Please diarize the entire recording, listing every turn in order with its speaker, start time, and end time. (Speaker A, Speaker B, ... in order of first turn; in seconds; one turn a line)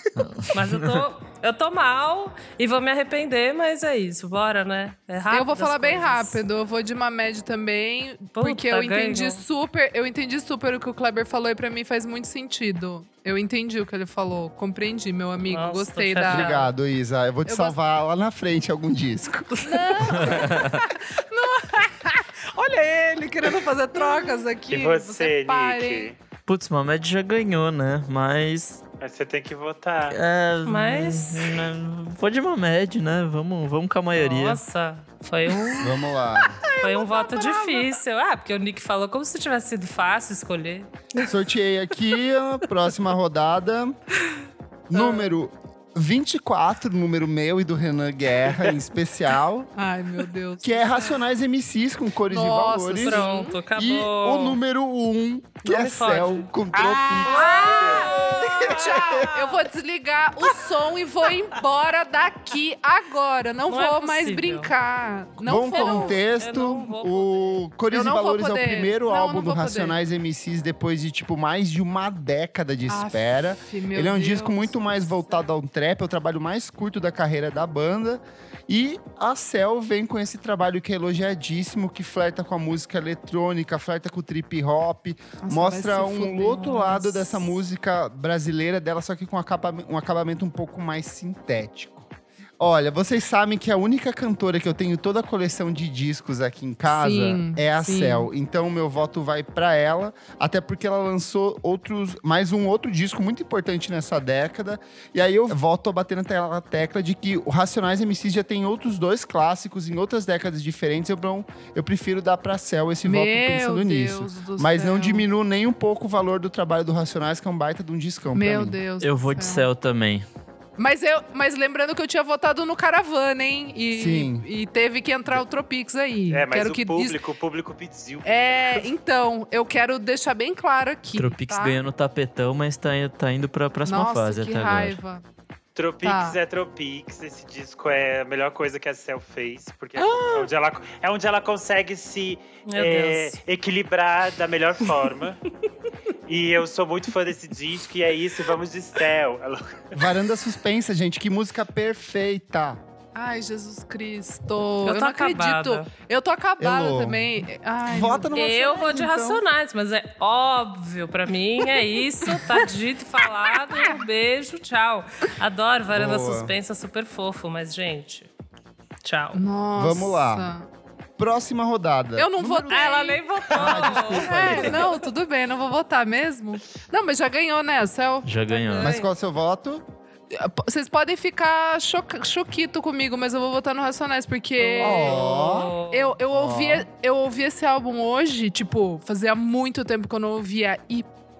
Speaker A: 0.2-1.0
Speaker B: 0.5-6.4
Speaker C: 5.3-16.6
Speaker B: 8.3-9.4
Speaker B: 15.5-16.7
Speaker D: 16.2-20.3
Speaker C: 17.5-17.8
Speaker C: 19.6-26.1
Speaker A: 20.2-20.8
Speaker E: 24.7-26.2
Speaker A: 26.5-28.8
Speaker E: 29.0-30.2
Speaker A: 30.1-34.6
Speaker B: 30.6-31.6
Speaker B: 34.1-35.9
Speaker D: 35.8-36.6
Speaker C: 36.7-37.8
Speaker B: 36.8-40.9
Speaker D: 41.2-44.0
Speaker D: 44.9-49.7
Speaker C: 45.0-45.3
Speaker C: 49.8-51.2
Speaker D: 50.6-59.5
Speaker C: 52.3-53.6
Speaker B: 53.0-54.6
Speaker B: 55.6-56.5
Speaker E: 56.7-58.3
Speaker C: 57.1-66.2
Speaker B: 57.3-58.1
Speaker B: 63.7-64.7
Speaker D: 65.4-118.8
Speaker B: 65.7-67.6
Speaker C: 67.9-70.0
Speaker C: 72.9-75.3
Speaker C: 85.4-87.5
Speaker C: 96.9-98.3
Speaker C: 113.0-115.2
Speaker C: 118.3-119.7
Speaker A: 119.0-120.2
Speaker C: 120.8-127.2
Speaker D: 123.9-124.5
Speaker E: 126.3-128.9
Speaker C: 128.2-131.8
Speaker A: 131.1-135.0
Speaker C: 133.8-135.2
Speaker E: 135.8-145.4
Speaker C: 136.0-136.4
Speaker C: 140.0-140.5
Speaker B: 142.7-143.4
Speaker E: 146.2-150.0
Speaker D: 149.9-152.8
Speaker C: 153.1-158.3
Speaker B: 154.8-155.9
Speaker D: 156.6-159.4
Speaker B: 158.3-168.3
Speaker D: 165.9-166.5
Speaker B: 169.0-169.4
Speaker C: 169.3-170.7
Speaker D: 169.8-170.5
Speaker D: 171.2-172.9
Speaker C: 172.2-178.8
Speaker B: 172.7-175.0
Speaker D: 173.5-174.9
Speaker A: 178.2-178.9
Speaker B: 178.5-179.1
Speaker D: 178.8-179.8
Speaker C: 180.3-191.1
Speaker B: 184.6-186.2
Speaker D: 184.8-185.7
Speaker D: 186.3-186.9